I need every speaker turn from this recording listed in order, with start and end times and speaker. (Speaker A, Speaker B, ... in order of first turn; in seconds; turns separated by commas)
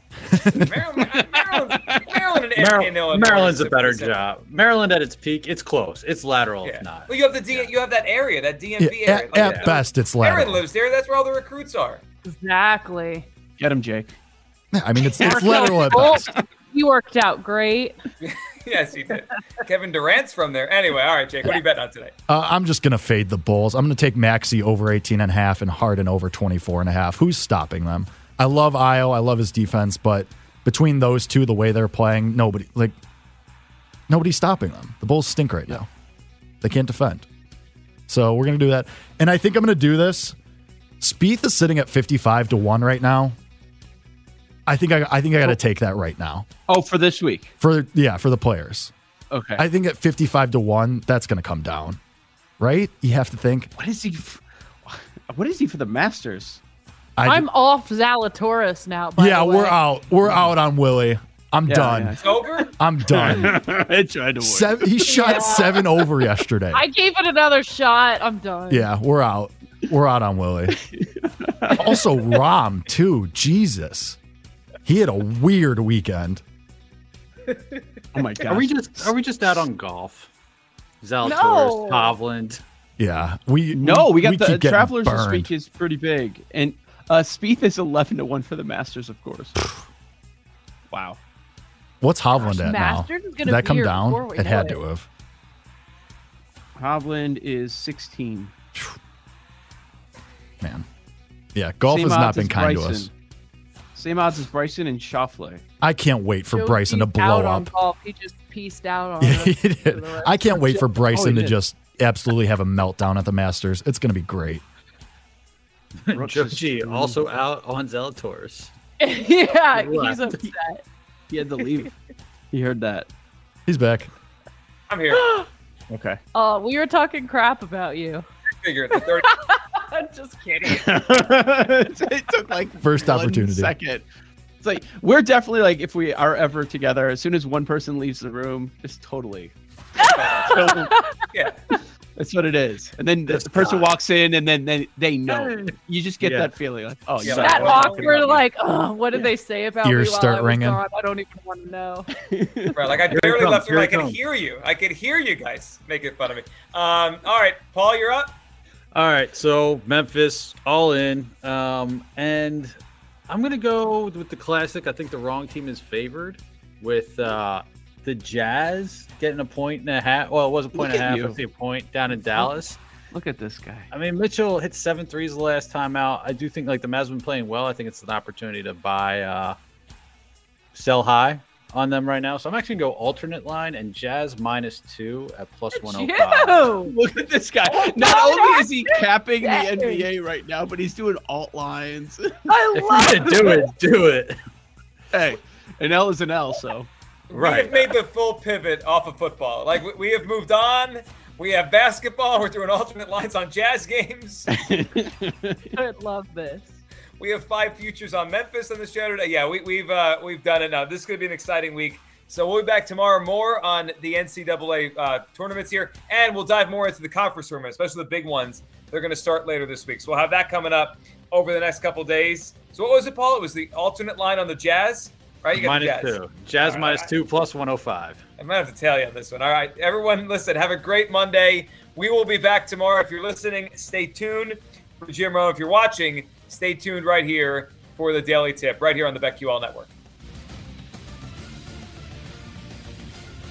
Speaker A: 0.4-4.2, Speaker B: 2.6-7.7, Speaker A: 6.6-12.0, Speaker C: 8.8-10.6, Speaker B: 9.3-9.8, Speaker D: 12.2-13.3, Speaker E: 13.6-14.2, Speaker C: 14.7-16.3, Speaker D: 15.0-18.0, Speaker E: 15.2-16.4, Speaker A: 18.2-22.1, Speaker C: 22.3-33.0, Speaker C: 34.1-35.9, Speaker C: 36.6-37.3, Speaker C: 38.1-40.4, Speaker C: 41.0-43.4, Speaker C: 44.7-46.5, Speaker E: 46.7-47.5, Speaker C: 47.6-48.9, Speaker E: 49.3-49.6, Speaker C: 49.6-52.0, Speaker C: 52.6-53.7, Speaker E: 53.8-56.6, Speaker C: 57.2-57.5, Speaker D: 57.2-59.8, Speaker C: 59.2-62.1, Speaker E: 60.2-60.5, Speaker E: 61.7-65.1, Speaker A: 62.2-62.7, Speaker C: 62.8-63.6, Speaker C: 64.4-66.8, Speaker D: 65.1-65.8, Speaker D: 66.7-68.9, Speaker C: 68.7-70.8, Speaker E: 70.7-72.1, Speaker C: 71.8-74.2, Speaker C: 74.8-76.4, Speaker E: 78.1-79.6, Speaker B: 78.5-80.3, Speaker B: 81.0-82.6, Speaker D: 81.2-82.2, Speaker C: 83.0-85.5, Speaker E: 83.7-89.8, Speaker E: 90.9-91.2, Speaker C: 92.0-95.1, Speaker D: 92.3-94.8, Speaker E: 96.8-98.5, Speaker C: 101.5-103.1, Speaker E: 101.8-103.1, Speaker E: 103.9-105.6, Speaker C: 105.8-107.7, Speaker D: 106.5-110.5, Speaker C: 109.2-114.6, Speaker E: 110.6-111.6, Speaker B: 116.1-118.7, Speaker E: 116.1-117.3, Speaker D: 119.0-120.8, Speaker B: 119.8-120.4, Speaker E: 121.3-121.9, Speaker E: 122.5-123.1, Speaker C: 123.7-124.1, Speaker A: 124.9-125.3, Speaker E: 125.9-126.2, Speaker D: 126.3-128.2, Speaker A: 128.6-129.3, Speaker D: 128.9-130.9, Speaker E: 130.7-134.1, Speaker C: 132.8-133.7, Speaker E: 134.6-139.5, Speaker D: 140.0-141.2, Speaker A: 140.1-140.5, Speaker E: 140.4-140.9, Speaker E: 142.2-148.4, Speaker B: 143.3-143.9, Speaker B: 145.3-146.5, Speaker B: 147.2-148.0, Speaker A: 147.2-148.4, Speaker D: 147.4-152.1, Speaker C: 149.8-150.8, Speaker E: 152.3-152.7, Speaker A: 152.8-158.3, Speaker B: 153.0-154.2, Speaker B: 158.9-162.8, Speaker B: 163.3-172.8, Speaker E: 170.7-171.4, Speaker E: 172.4-173.9, Speaker B: 173.9-179.6, Speaker B: 180.7-186.8, Speaker D: 185.7-186.9, Speaker E: 186.9-192.5, Speaker D: 187.7-190.1, Speaker D: 192.5-193.7, Speaker B: 192.7-194.4, Speaker E: 195.1-196.9, Speaker A: 197.3-204.5, Speaker B: 197.3-197.9, Speaker E: 204.5-205.7, Speaker D: 205.7-206.7, Speaker A: 207.2-227.1, Speaker B: 225.5-228.2, Speaker A: 228.4-239.9